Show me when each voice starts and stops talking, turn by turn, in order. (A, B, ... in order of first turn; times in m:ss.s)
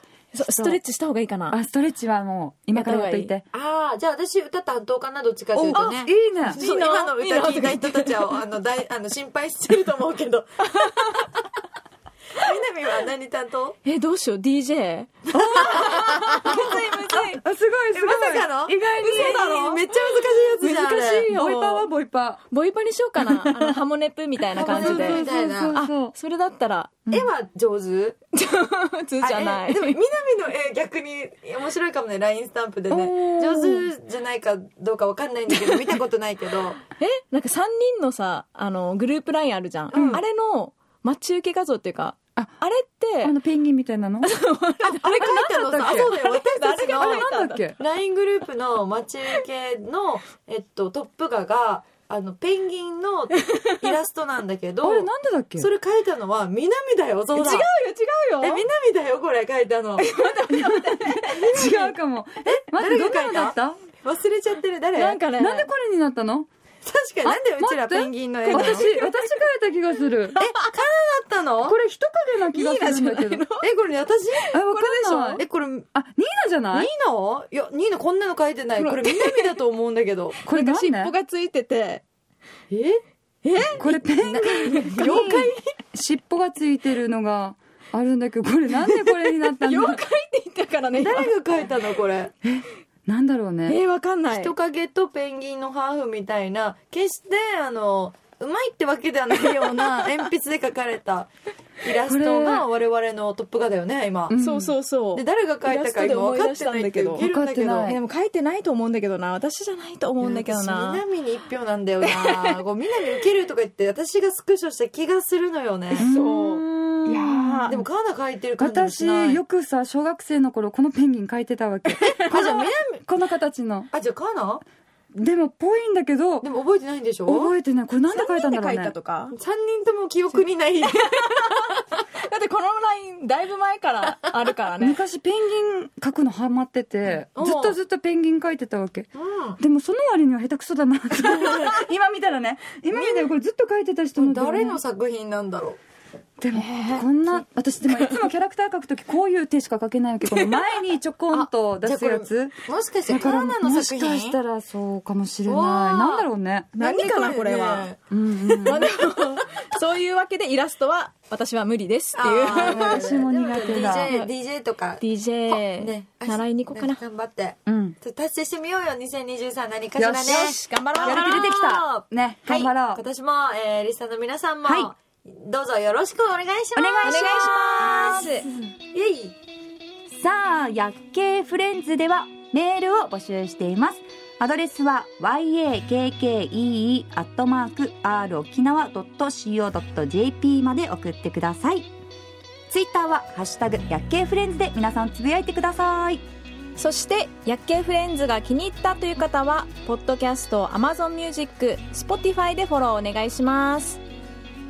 0:00.3-0:01.6 A
0:01.5-0:03.4 B
0:02.7-0:03.3 A
0:03.5-0:11.2 C
0:05.5-0:06.6 B
0:06.5-0:08.4 A
0:10.8-0:11.3 A
0:12.3-0:13.8 C
0:13.8-0:17.4 A
0:15.3-0:19.6 B
0:15.8-0:16.5 C
0:17.9-0:21.3 C
0:18.9-0:21.9 A
0:21.3-0:22.4 B
0:22.5-0:27.0 A
0:23.2-0:23.8 B
0:24.5-0:26.1 B
0:24.6-0:25.8 C
0:27.1-0:28.2 C
0:28.3-0:30.0 A
0:29.2-0:36.8 C
0:32.9-0:33.9 B
0:37.0-0:43.4 A
0:39.9-0:40.2 C
0:39.9-0:40.2 B
0:43.2-0:44.3 B
0:44.2-0:47.6 A
0:44.8-0:57.7 C
0:45.5-0:46.1 B
0:46.8-0:47.8 B
0:53.4-0:53.7 A
0:54.8-0:55.7 B
0:57.3-0:58.6 A
0:58.4-1:00.1 C
1:00.0-1:01.6 A
1:00.5-1:03.8 B
1:01.3-1:05.2 C
1:05.0-1:05.7 A
1:05.0-1:06.5 B
1:06.8-1:08.9 C
1:07.2-1:10.4 B
1:08.4-1:09.4 A
1:10.4-1:11.8 C
1:11.6-1:13.4 B
1:12.5-1:13.7 A
1:13.6-1:14.5 C
1:14.4-1:15.4 A
1:14.5-1:16.9 B
1:15.4-1:15.9 C
1:16.7-1:20.4 C
1:18.8-1:19.6 A
1:20.4-1:22.0 A
1:20.4-1:21.1 B
1:22.7-1:23.0 C
1:23.4-1:25.7 A
1:23.8-1:30.0 B
1:28.7-1:31.3 A
1:30.9-1:32.3 C
1:32.4-1:33.8 B
1:33.6-1:34.5 A
1:34.3-1:41.3 C
1:41.8-1:44.3 C
1:42.0-1:42.7 B
1:44.3-1:44.8 B
1:44.4-1:47.3 A
1:45.1-1:47.9 C
1:47.2-1:48.0 B
1:47.8-1:51.0 A
1:50.2-1:56.1 C
1:52.1-1:52.6 A
1:55.9-1:57.8 A
1:56.0-1:57.8 B
1:57.7-1:59.4 C
1:58.6-2:03.9 B
2:02.3-2:03.0 C
2:03.9-2:04.6 C
2:05.1-2:06.5 B
2:06.4-2:07.5 C
2:07.3-2:08.9 B
2:08.1-2:09.3 A
2:09.3-2:11.7 C
2:11.2-2:15.0 A
2:14.8-2:19.1 B
2:17.3-2:17.8 C
2:19.1-2:19.6 C
2:19.6-2:24.8 B
2:22.9-2:23.3 C
2:24.2-2:25.8 C
2:26.4-2:32.6 B
2:26.5-2:28.3 A
2:30.2-2:30.6 A
2:31.3-2:34.4 C
2:33.1-2:36.7 B
2:35.4-2:36.2 C
2:36.7-2:37.9 A
2:36.8-2:38.0 C
2:38.1-2:38.9 B
2:38.5-2:43.1 A
2:42.2-2:57.4 C
2:42.5-2:44.2 B
2:43.6-2:44.3 A
2:45.0-2:47.0 A
2:47.6-2:48.0 B
2:50.0-2:53.0 B
2:50.2-2:51.6 A
2:54.6-2:54.9 B
2:56.8-2:58.5 B
2:57.0-2:58.5 A
2:58.8-2:59.4 C
3:00.1-3:11.9 B
3:12.7-3:16.2 B
3:16.8-3:24.0 A